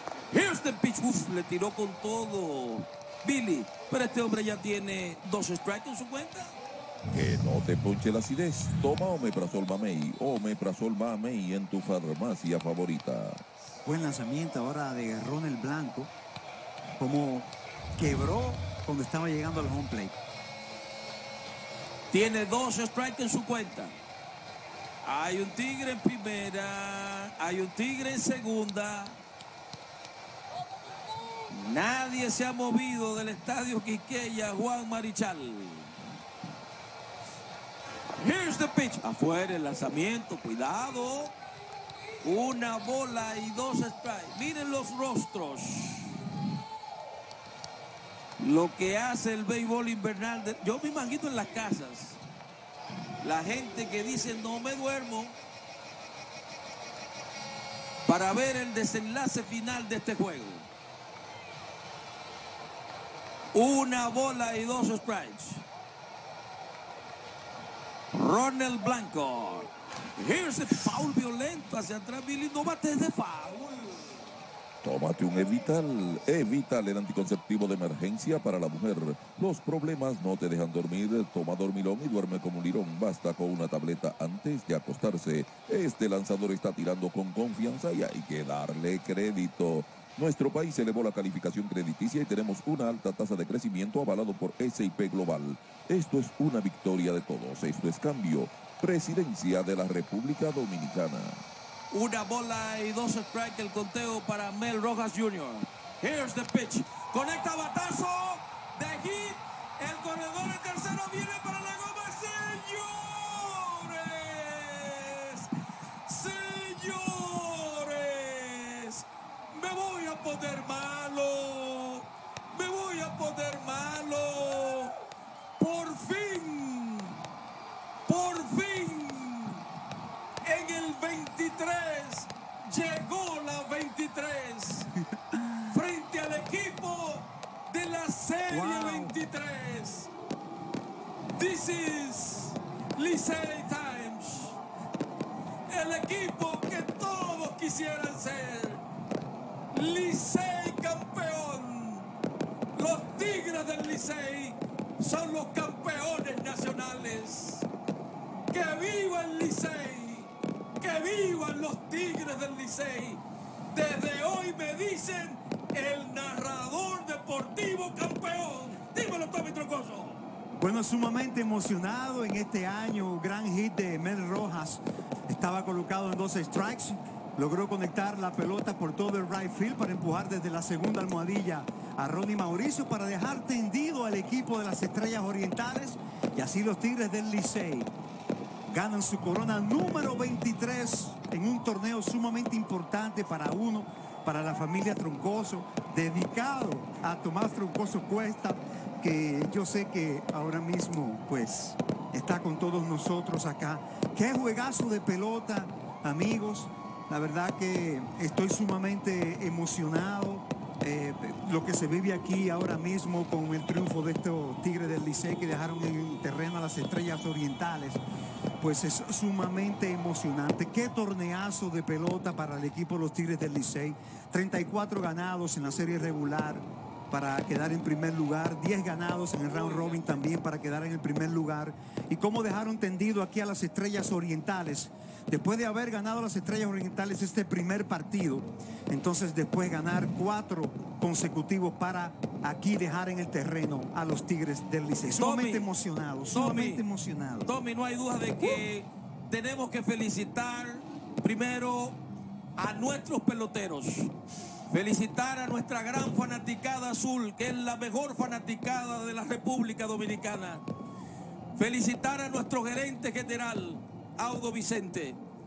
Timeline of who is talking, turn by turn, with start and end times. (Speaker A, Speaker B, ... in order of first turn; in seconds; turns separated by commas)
Speaker A: 0.3-6.5, Speaker B: 7.1-13.4, Speaker C: 13.8-16.1, Speaker C: 17.0-20.2, Speaker A: 22.1-23.9, Speaker A: 25.0-29.2, Speaker A: 31.5-35.9, Speaker A: 38.2-41.3, Speaker A: 42.2-46.2, Speaker A: 48.4-52.2, Speaker A: 53.2-55.4, Speaker A: 58.0-60.7, Speaker A: 63.5-65.6, Speaker A: 68.1-74.2, Speaker B: 74.8-101.4, Speaker A: 101.9-115.5, Speaker A: 116.0-124.9, Speaker A: 125.6-127.2, Speaker A: 128.1-129.6, Speaker A: 130.4-134.9, Speaker A: 135.7-140.1, Speaker C: 138.5-139.1, Speaker A: 141.3-144.6, Speaker A: 145.7-148.8, Speaker A: 149.7-152.1, Speaker A: 152.7-157.7, Speaker A: 158.5-163.2, Speaker A: 163.7-170.2, Speaker C: 170.6-187.9, Speaker C: 188.7-218.0, Speaker C: 218.6-247.5, Speaker A: 229.5-230.2, Speaker A: 245.2-245.7, Speaker A: 246.3-246.8, Speaker A: 247.4-252.0, Speaker A: 252.6-254.1, Speaker A: 254.7-260.6, Speaker A: 261.6-265.2